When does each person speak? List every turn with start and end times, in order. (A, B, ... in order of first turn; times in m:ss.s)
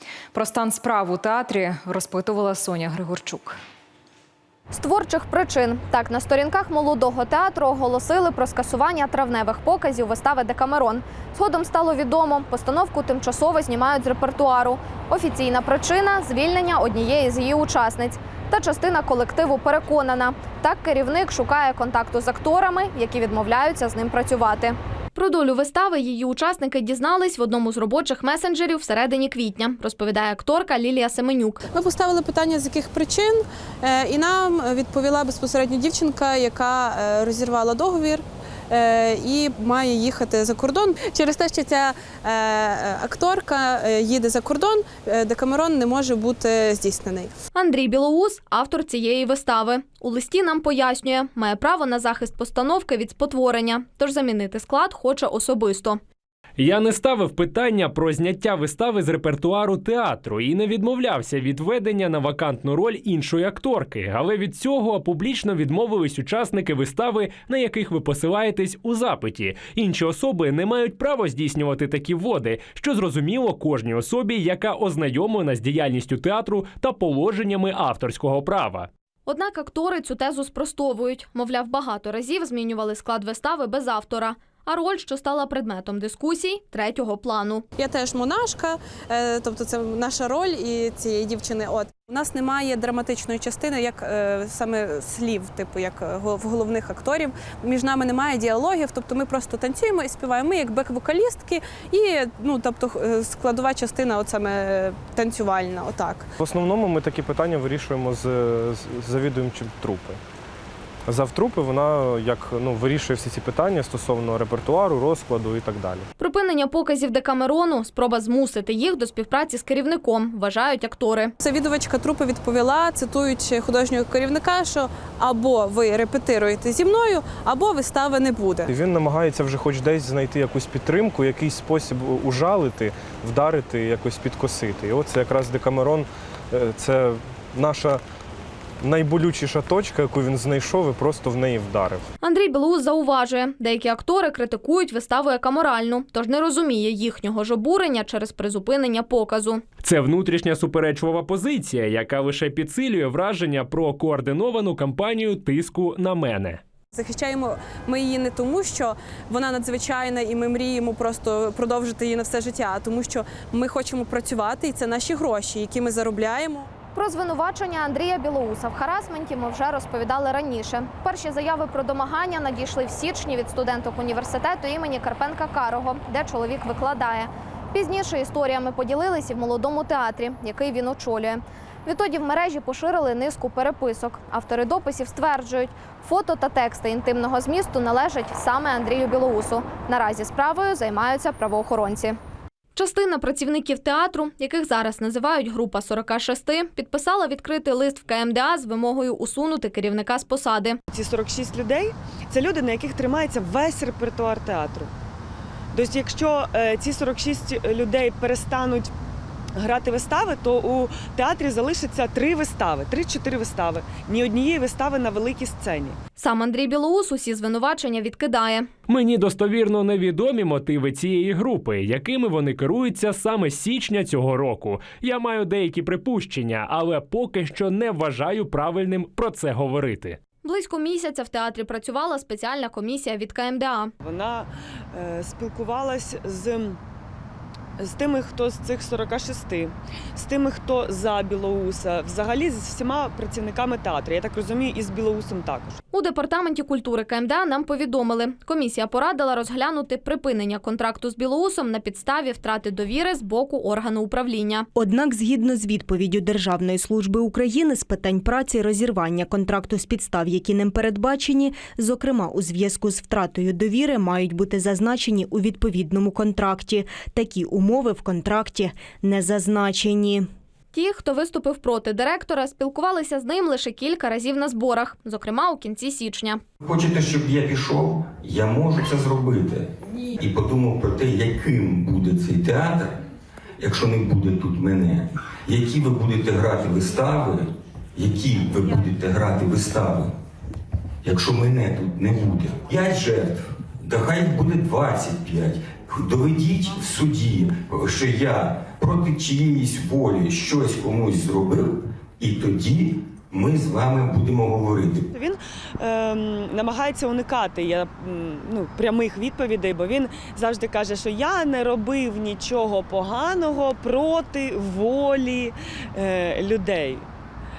0:00.3-0:03.6 A
0:04.7-0:31.6 B
0:31.7-0:47.3 C
0:47.5-0:56.0 B
0:56.6-1:18.9 D
1:19.3-1:27.7 B
1:27.8-1:46.3 C
1:46.4-1:50.2 E
1:51.1-1:56.1 E
1:56.2-2:01.3 B
2:01.4-2:08.7 C
2:08.7-2:18.0 E
2:18.8-2:22.0 E
2:22.2-2:29.6 B
2:29.8-2:36.6 D
2:36.9-2:46.7 C
2:46.9-3:12.2 B
3:12.8-3:20.8 B
3:20.9-3:24.9 F
3:25.7-3:28.9 F
3:29.6-3:36.0 F
3:36.2-3:38.7 B
3:38.9-3:50.2 D
3:50.4-3:53.9 B
3:54.0-3:56.8 F
3:57.8-4:05.8 F
4:05.9-4:14.7 B
4:14.8-4:30.2 G
4:30.7-4:36.4 B
4:36.6-4:43.0 H
4:43.6-4:50.1 H
4:51.0-5:05.1 H
5:05.1-5:17.0 F